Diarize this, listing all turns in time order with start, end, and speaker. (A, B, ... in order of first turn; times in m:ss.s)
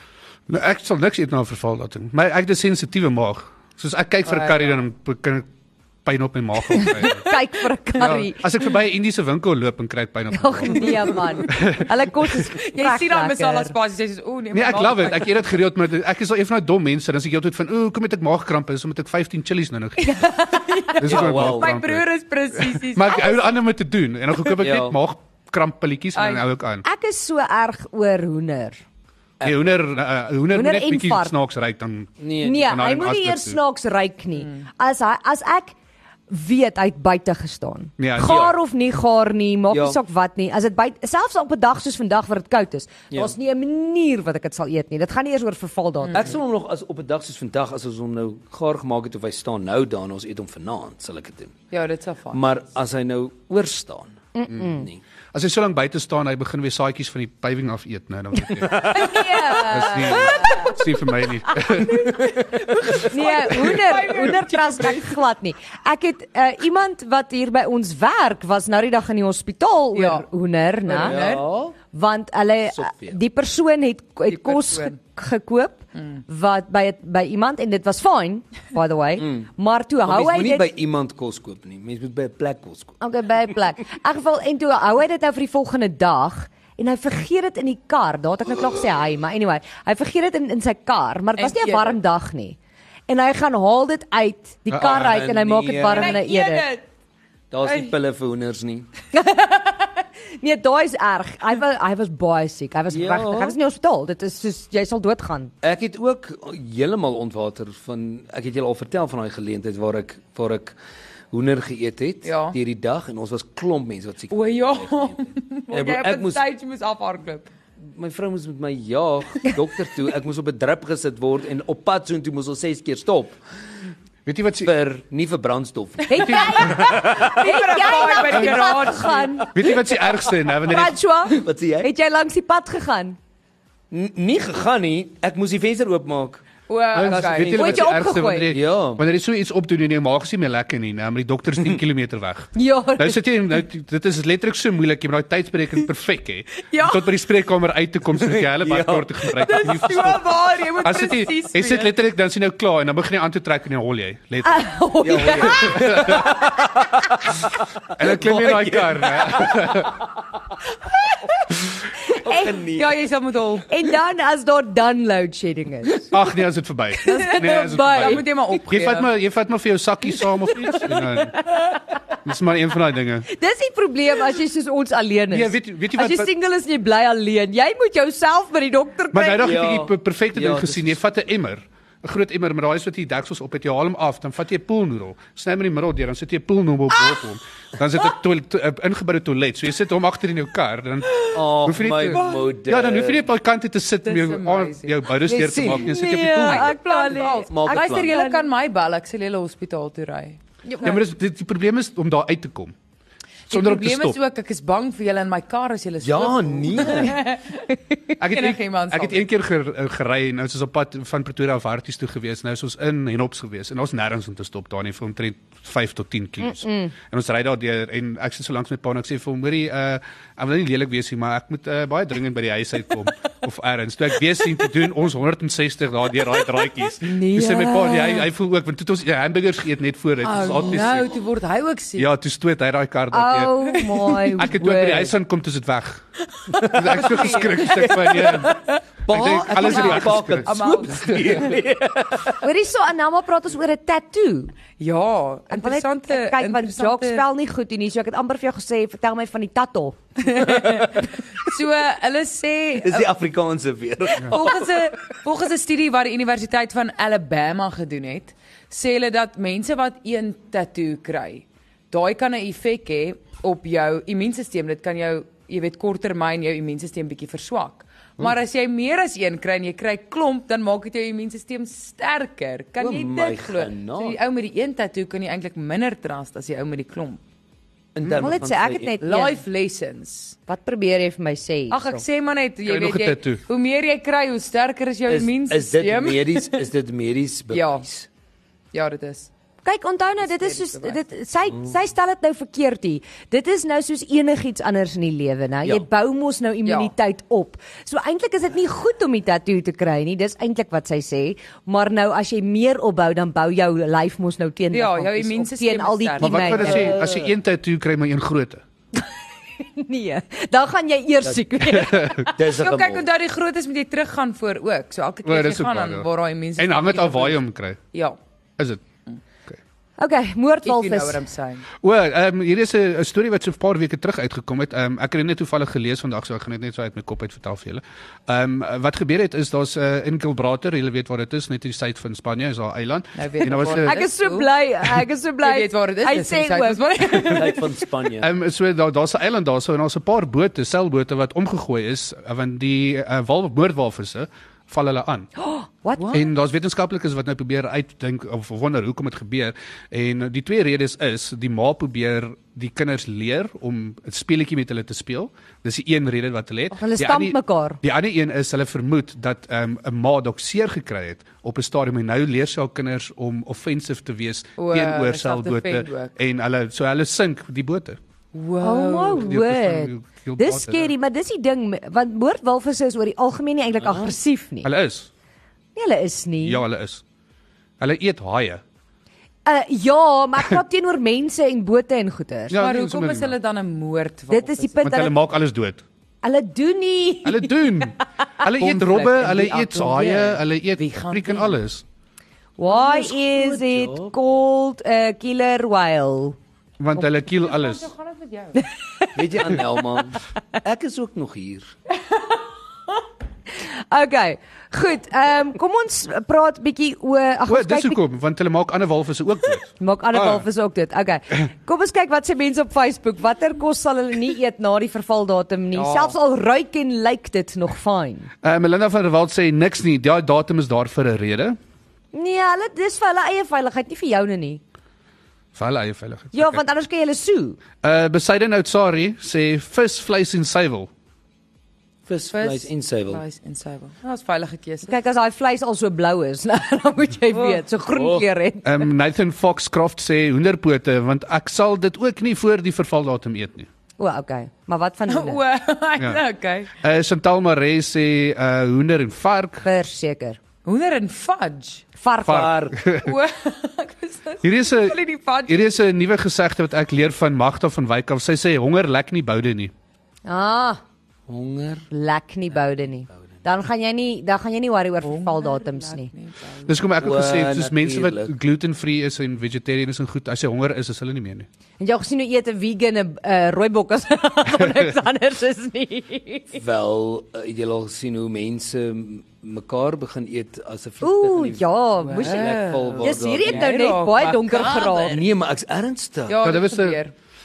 0:00.5-0:05.5 A
0:04.2-0:04.8 B
0:06.0-0:07.3 A
0:06.8-0:08.4 C
0:08.0-0:11.9 A
0:10.3-0:13.7 C
0:10.8-0:11.0 B
0:12.5-0:15.5 B
0:14.5-0:20.4 A
0:20.0-0:20.9 C
0:20.5-0:23.6 B
0:21.0-0:22.0 A
0:21.0-0:21.8 D
0:22.6-0:26.8 A
0:24.6-0:25.0 D
0:26.2-0:26.4 B
0:26.8-0:28.8 C
0:29.4-0:33.6 A
0:30.5-0:31.3 C
0:32.2-0:32.7 D
0:32.4-0:35.7 C
0:36.3-0:46.4 C
0:38.0-0:38.4 A
0:38.2-0:38.6 D
0:39.7-0:40.0 D
0:46.0-0:46.3 B
0:46.1-0:51.6 D
0:51.7-0:52.4 B
0:52.3-0:55.0 D
0:54.3-0:54.9 C
0:55.3-1:02.2 A
0:58.6-0:59.2 D
0:58.8-1:00.8 C
0:59.5-1:00.7 B
1:01.5-1:02.3 C
1:02.1-1:05.2 B
1:02.9-1:11.2 C
1:09.9-1:10.3 B
1:10.9-1:11.4 B
1:11.0-1:11.8 D
1:11.9-1:20.7 C
1:12.7-1:13.2 D
1:14.3-1:15.0 B
1:19.2-1:19.5 D
1:20.0-1:23.0 D
1:23.0-1:32.6 C
1:31.4-1:32.0 B
1:33.1-1:36.7 C
1:34.8-1:36.2 D
1:35.9-1:36.8 B
1:37.5-1:38.9 D
1:37.6-1:37.9 B
1:39.1-1:39.8 C
1:40.4-1:45.5 C
1:42.9-1:43.6 D
1:45.6-1:50.8 D
1:51.3-1:56.4 D
1:52.2-1:52.6 B
1:54.3-1:57.5 B
1:57.8-2:03.4 D
2:04.3-2:04.7 A
2:04.6-2:07.5 D
2:06.1-2:09.6 C
2:06.2-2:06.6 A
2:06.7-2:09.7 B
2:09.5-2:11.0 A
2:10.6-2:13.2 C
2:11.3-2:11.9 D
2:13.9-2:16.4 D
2:16.7-2:17.6 B
2:16.9-2:30.3 A
2:17.0-2:18.0 D
2:17.5-2:18.6 C
2:18.5-2:19.0 D
2:22.6-2:23.2 C
2:26.7-2:27.1 B
2:28.1-2:29.8 D
2:29.3-2:31.9 B
2:30.8-2:34.7 A
2:34.4-2:36.1 C
2:35.0-2:37.5 D
2:35.4-2:36.4 A
2:38.0-2:40.0 A
2:38.0-2:40.2 D
2:42.0-2:43.0 D
2:42.1-2:42.5 C
2:42.7-2:43.7 B
2:43.7-2:46.1 C
2:46.1-2:51.6 A
2:47.0-2:48.5 C
2:47.1-2:49.1 B
2:52.2-2:53.3 A
2:53.3-2:59.6 C
2:55.3-2:56.3 A
2:59.1-3:16.7 A
2:59.4-3:01.0 D
3:11.3-3:13.3 D
3:12.1-3:12.4 B
3:14.0-3:15.1 B
3:15.2-3:16.0 D
3:15.8-3:18.5 C
3:16.2-3:20.4 B
3:17.5-3:18.2 D
3:20.7-3:21.0 C
3:20.8-3:22.8 A
3:23.5-3:27.7 B
3:23.5-3:24.2 A
3:26.0-3:27.2 D
3:28.2-3:51.1 A
3:28.2-3:29.3 B
3:36.4-3:36.9 C
3:47.0-3:48.3 C
3:50.2-3:52.1 B
3:52.0-3:56.0 A
3:53.1-3:55.1 C
3:56.6-4:01.4 A
3:56.7-3:57.1 D
3:56.7-4:01.6 B
3:57.7-3:58.5 D
3:59.1-4:02.4 D
4:02.4-4:04.5 C
4:04.8-4:07.2 B
4:05.5-4:10.4 C
4:10.2-4:13.1 B
4:12.8-4:14.8 D
4:14.2-4:37.2 B
4:32.8-4:34.2 D
4:38.0-4:39.0 D
4:38.2-4:39.4 C
4:39.0-4:40.4 B
4:40.5-4:42.0 C
4:41.7-4:46.7 B
4:42.7-4:43.4 A
4:45.1-4:48.1 D
4:47.5-4:47.8 B
4:48.7-4:49.3 B
4:49.6-5:07.0 C
4:50.2-4:51.0 B
4:56.6-4:56.9 B
5:04.7-5:07.0 B
5:06.2-5:08.6 A
5:06.7-5:07.3 D
5:09.8-5:12.4 C
5:11.7-5:12.2 A
5:12.3-5:13.1 D
5:12.5-5:17.4 B
5:15.2-5:16.1 A
5:16.6-5:17.8 A
5:18.6-5:18.8 A
5:20.0-5:21.2 C
5:20.6-5:21.7 B
5:21.8-5:34.0 A
5:33.2-5:34.5 B
5:33.4-5:37.4 C
5:35.4-5:37.8 B
5:37.2-5:38.3 D
5:38.2-5:45.3 A
5:45.4-5:46.2 C
5:46.0-5:46.2 B
5:46.1-6:08.0 A
5:56.7-5:57.8 C
6:04.6-6:06.2 B
6:08.3-6:09.3 B
6:08.6-6:14.7 C
6:09.2-6:10.9 A
6:13.8-6:14.2 D
6:14.6-6:15.1 A
6:15.8-6:16.6 C
6:16.4-6:17.0 A
6:17.8-6:18.6 A
6:19.5-6:22.6 C
6:22.5-6:23.3 A
6:22.6-6:24.8 B
6:24.3-6:25.2 C
6:24.8-6:25.8 A
6:26.2-6:27.8 C
6:27.2-6:31.8 A
6:28.6-6:31.6 B
6:32.6-6:36.4 C
6:32.7-6:34.2 D
6:36.8-6:37.9 A
6:37.2-6:38.7 B
6:39.2-6:41.7 D
6:43.6-6:48.0 C
6:47.5-6:50.4 A
6:49.8-6:58.3 C
6:55.7-6:56.2 B
6:58.4-7:01.6 A
7:02.1-7:04.6 C
7:05.6-7:06.6 A
7:06.3-7:07.6 C
7:07.8-7:10.9 A
7:12.1-7:13.2 D
7:12.3-7:14.9 B
7:14.9-7:18.9 C
7:17.3-7:17.6 B
7:17.9-7:18.3 D
7:18.6-7:23.7 A
7:24.0-7:25.4 C
7:25.1-7:26.7 B
7:26.8-7:29.7 A
7:29.6-7:30.4 C
7:30.6-7:31.9 B
7:32.0-7:32.5 C
7:32.3-7:32.8 D
7:32.3-7:33.1 A
7:33.0-7:35.8 B
7:34.4-7:39.7 A
7:40.3-7:40.8 C
7:41.3-7:41.9 D
7:41.9-7:46.1 C
7:45.0-7:46.8 B
7:46.7-7:51.5 A
7:47.0-7:48.3 D
7:51.8-7:56.6 C
7:56.5-8:03.8 D
8:01.0-8:05.2 C
8:02.0-8:05.2 B
8:04.6-8:06.5 D
8:06.3-8:07.1 B
8:06.4-8:07.0 A